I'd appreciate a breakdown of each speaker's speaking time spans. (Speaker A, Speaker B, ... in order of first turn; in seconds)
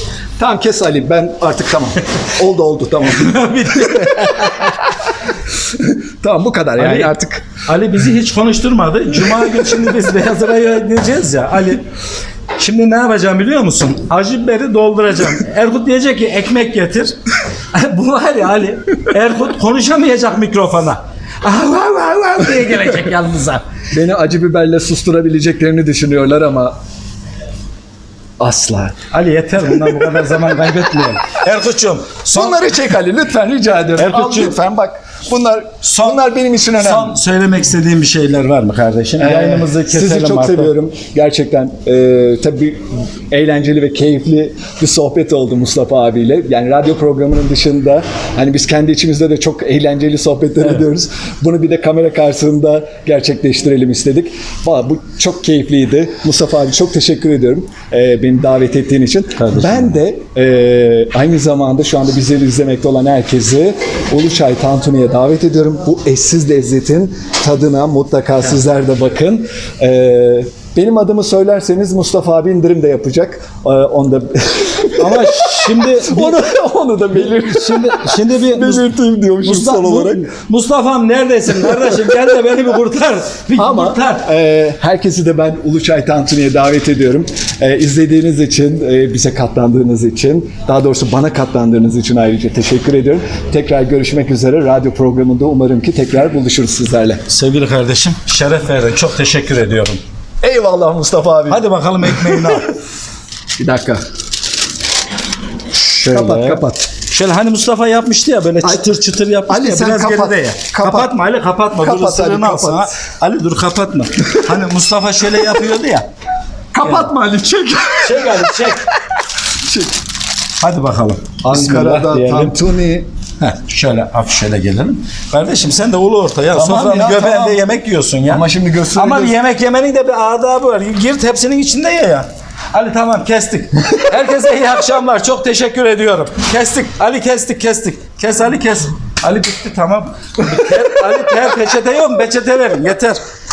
Speaker A: 0.4-4.3, 5.8-7.4, 23.9-26.7, 28.4-28.9, 32.3-37.2, 39.2-80.3, 81.7-82.1, 83.6-97.2, 100.4-102.6, 103.6-104.0, 105.9-106.8, 108.6-108.9, 109.5-111.1, 111.7-112.9, 116.7-118.8, 119.7-119.9, 121.4-123.0, 126.5-127.6, 128.3-129.3
Speaker B: 3.0-4.9, 6.8-7.1, 7.7-11.8, 12.6-17.1, 17.7-23.6, 29.1-32.7, 34.0-34.5, 35.9-36.2, 36.8-40.7, 59.4-59.9, 75.0-76.4, 77.1-78.9, 79.4-84.2, 97.3-100.0, 101.5-102.7, 105.9-116.1, 116.8-117.1, 118.0-118.8, 120.6-122.5, 123.4-128.4, 128.9-143.2